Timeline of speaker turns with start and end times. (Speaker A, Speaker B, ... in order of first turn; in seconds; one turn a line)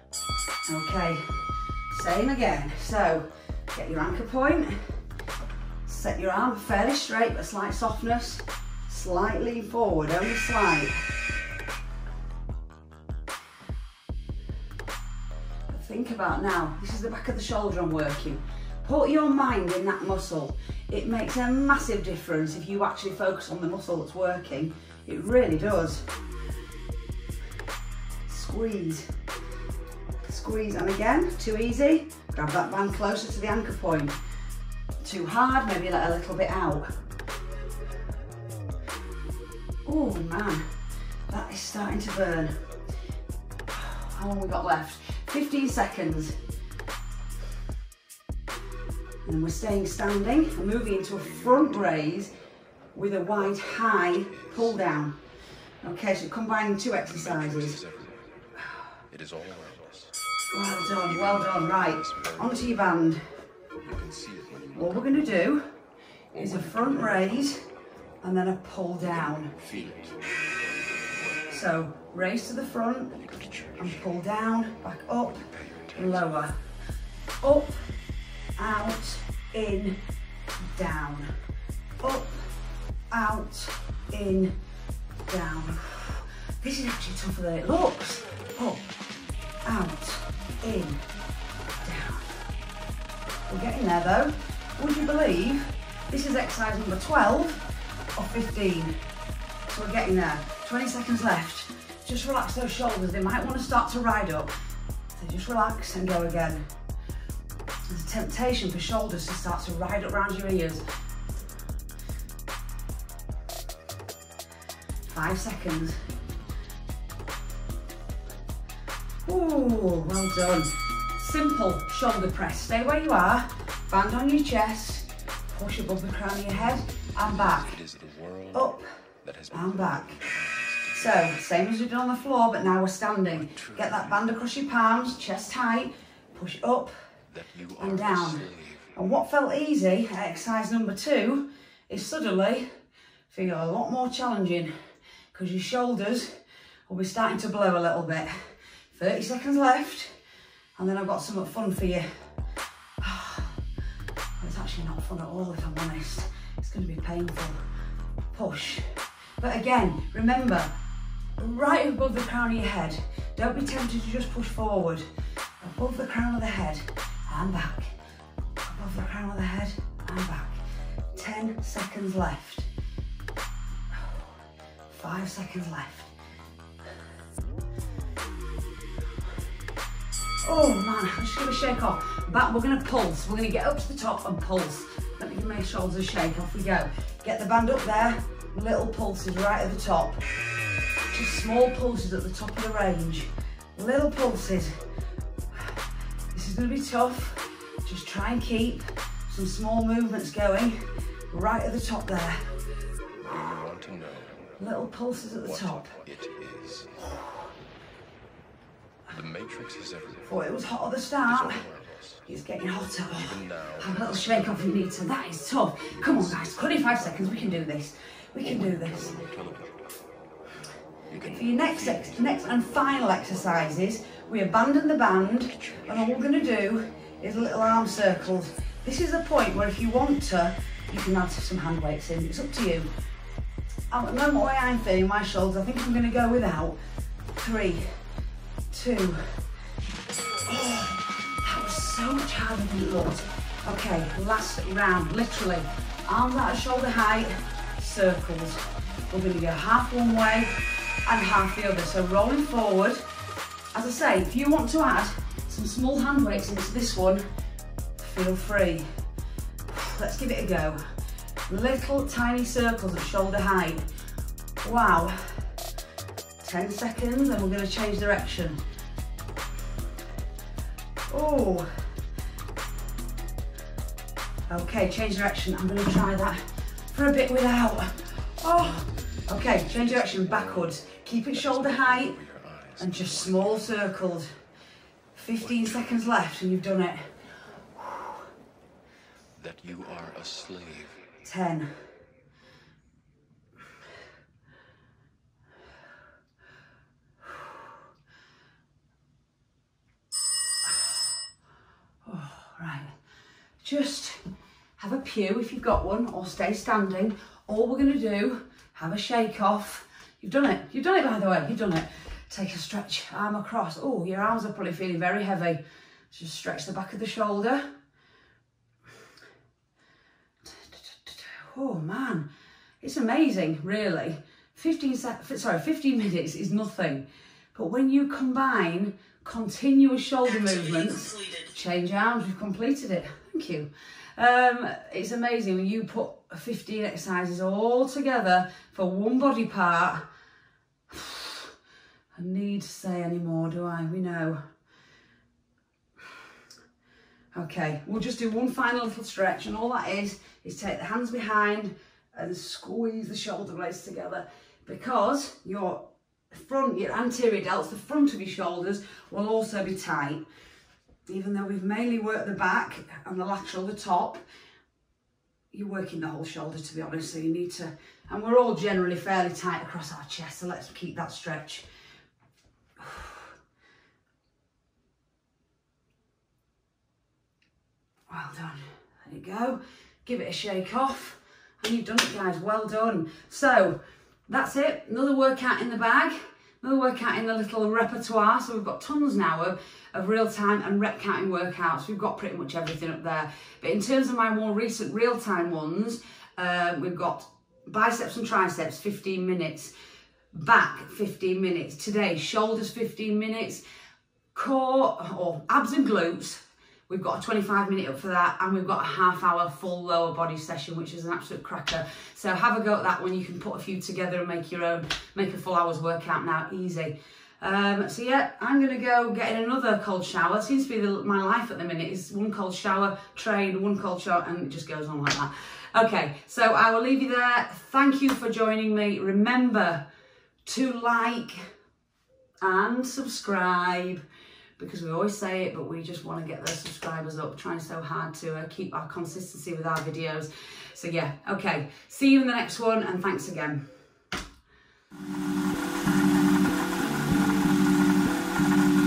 Speaker A: 0.7-4.8
Speaker A: 5.9-11.0
Speaker A: 15.7-26.0
Speaker A: 28.3-29.1
Speaker A: 30.2-34.2
Speaker A: 35.0-36.9
Speaker A: 39.9-40.7
Speaker A: 41.3-42.5
Speaker A: 43.7-46.4
Speaker A: 49.2-52.4
Speaker B: 51.2-52.1
Speaker A: 52.9-55.2
Speaker B: 53.6-54.7
Speaker A: 55.8-57.8
Speaker B: 57.0-58.2
Speaker B: 59.1-60.1
Speaker A: 60.5-63.2
Speaker B: 60.9-62.9
Speaker B: 63.9-65.3
Speaker A: 64.7-65.7
Speaker B: 66.3-67.5
Speaker A: 66.4-67.6
Speaker A: 68.2-69.5
Speaker B: 69.0-70.4
Speaker B: 70.9-71.5
Speaker A: 71.5-73.2
Speaker B: 73.3-74.0
Speaker A: 73.8-76.5
Speaker B: 75.5-76.3
Speaker A: 77.4-77.8
Speaker A: 78.6-80.0
Speaker A: 80.7-81.3
Speaker A: 82.0-82.4
Speaker A: 83.1-84.5
Speaker A: 85.3-88.8
Speaker A: 89.7-91.0
Speaker A: 91.8-92.3
Speaker A: 93.5-97.6
Speaker A: 98.2-98.9
Speaker A: 99.7-104.5
Speaker A: 105.2-106.7
Speaker A: 107.9-110.8
Speaker A: 115.1-116.0
Speaker A: 119.2-127.8
Speaker B: 127.6-131.3
Speaker A: 128.5-128.9
Speaker A: 129.5-130.2
Speaker A: 130.9-136.9
Speaker B: 133.4-134.1
Speaker B: 137.3-138.9
Speaker A: 137.8-142.7
Speaker A: 143.3-144.7
Speaker A: 145.3-146.3
Speaker A: 146.9-148.3
Speaker A: 148.9-150.1
Speaker A: 150.8-152.1
Speaker A: 153.0-153.6
Speaker A: 154.4-157.6
Speaker A: 158.3-158.9
Speaker A: 159.4-160.7
Speaker A: 161.4-165.1
Speaker A: 165.6-167.9
Speaker A: 168.7-172.7
Speaker A: 173.9-174.2
Speaker A: 174.9-176.1
Speaker A: 180.4-190.2
Speaker A: 191.1-194.8
Speaker A: 196.3-200.8
Speaker A: 201.3-202.4
Speaker B: 203.2-204.4
Speaker A: 204.6-206.0
Speaker B: 205.4-207.0
Speaker B: 209.1-210.3
Speaker A: 210.3-211.6
Speaker B: 211.2-212.2
Speaker A: 212.3-219.2
Speaker B: 213.1-214.7
Speaker B: 216.0-216.7
Speaker B: 218.7-219.7
Speaker B: 221.1-222.3
Speaker A: 221.2-232.9
Speaker B: 225.6-225.9
Speaker A: 233.9-236.8
Speaker A: 237.4-237.9
Speaker A: 238.7-239.2
Speaker A: 240.5-253.0
Speaker A: 253.7-257.2
Speaker A: 258.0-258.9
Speaker A: 259.7-260.8
Speaker A: 261.5-263.9
Speaker A: 264.6-265.5
Speaker A: 266.4-268.6
Speaker A: 271.1-271.7
Speaker A: 274.5-276.4
Speaker A: 276.9-282.2
Speaker B: 281.4-283.6
Speaker A: 282.8-284.3
Speaker A: 285.1-287.1
Speaker B: 289.4-291.0
Speaker A: 291.2-291.7
Speaker A: 302.0-302.9
Speaker A: 303.6-304.2
Speaker A: 304.8-317.6
Speaker A: 320.4-322.3
Speaker A: 322.8-340.0
Speaker A: 340.9-341.5
Speaker A: 342.1-344.4
Speaker A: 347.3-360.2
Speaker A: 361.1-364.2
Speaker A: 365.5-371.7
Speaker A: 372.8-373.3
Speaker A: 378.1-399.7
Speaker A: 400.3-403.6
Speaker A: 404.3-429.9
Speaker A: 430.4-431.5
Speaker A: 432.4-434.0
Speaker A: 434.6-443.7